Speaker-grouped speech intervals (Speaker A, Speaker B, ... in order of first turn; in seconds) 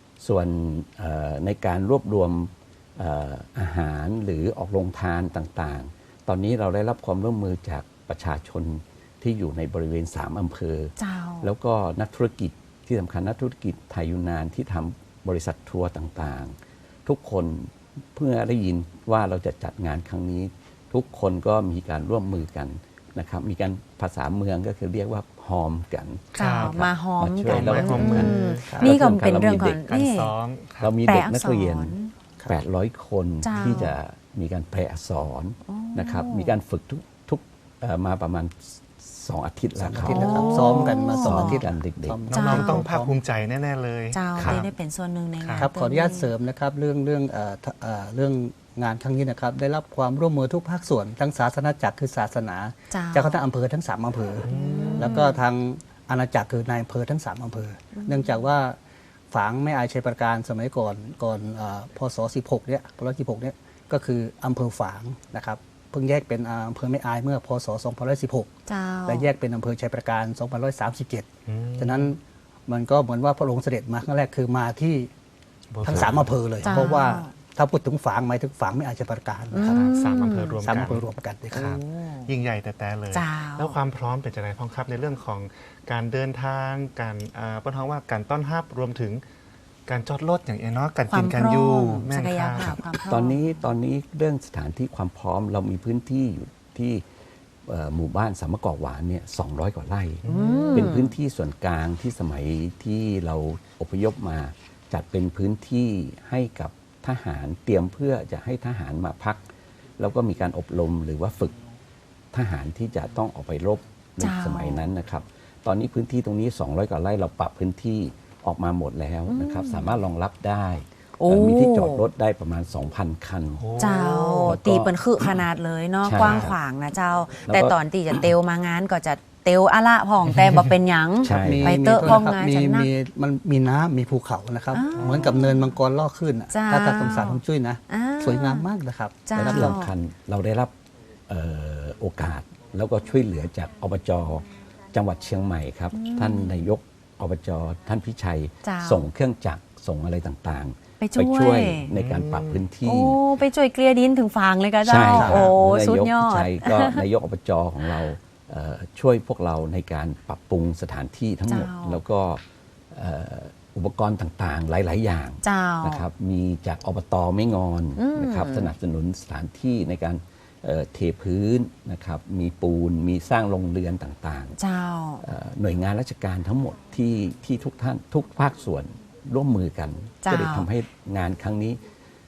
Speaker A: 0.2-29.8, 30.8-31.9, 32.5-42.2, 44.4-44.6, 93.1-97.0, 97.6-111.5, 112.3-123.7, 124.4-125.0, 126.0-126.6, 127.5-127.8, 131.2-132.1, 139.3-140.7, 141.3-153.2, 154.8-174.6, 175.2-181.8
Speaker B: 11.0-11.5, 26.4-30.3, 31.1-32.1, 33.4-33.9, 35.6-36.6, 40.1-41.6, 42.3-42.9, 44.1-46.3, 52.9-53.4, 54.5-55.4, 57.9-58.3, 68.7-69.3, 76.6-77.3, 79.5-80.6, 81.5-82.3, 83.1-83.8, 91.1-93.7, 100.3-101.1, 114.2-114.9, 119.3-120.0, 121.2-122.1, 123.8-132.9, 134.7-135.7, 136.5-138.7, 139.2-139.9, 145.9-146.6, 148.6-149.0, 151.0-151.9, 152.8-157.1, 161.4-162.0, 165.4-166.1, 167.9-168.7, 174.5-175.2, 180.2-180.7
Speaker C: 26.4-26.8, 27.4-28.9, 29.9-30.9, 33.5-33.9, 42.3-44.7, 45.4-45.7, 54.4-55.3, 71.5-72.1, 75.7-76.9, 79.6-89.2, 89.9-92.9, 100.2-100.9, 123.6-124.5, 126.2-126.5, 135.0-135.4, 151.9-152.6
Speaker D: 39.8-43.2, 45.6-58.8, 59.3-68.5, 69.0-75.1, 75.8-79.8, 80.6-81.8, 131.3-139.8, 155.1-155.5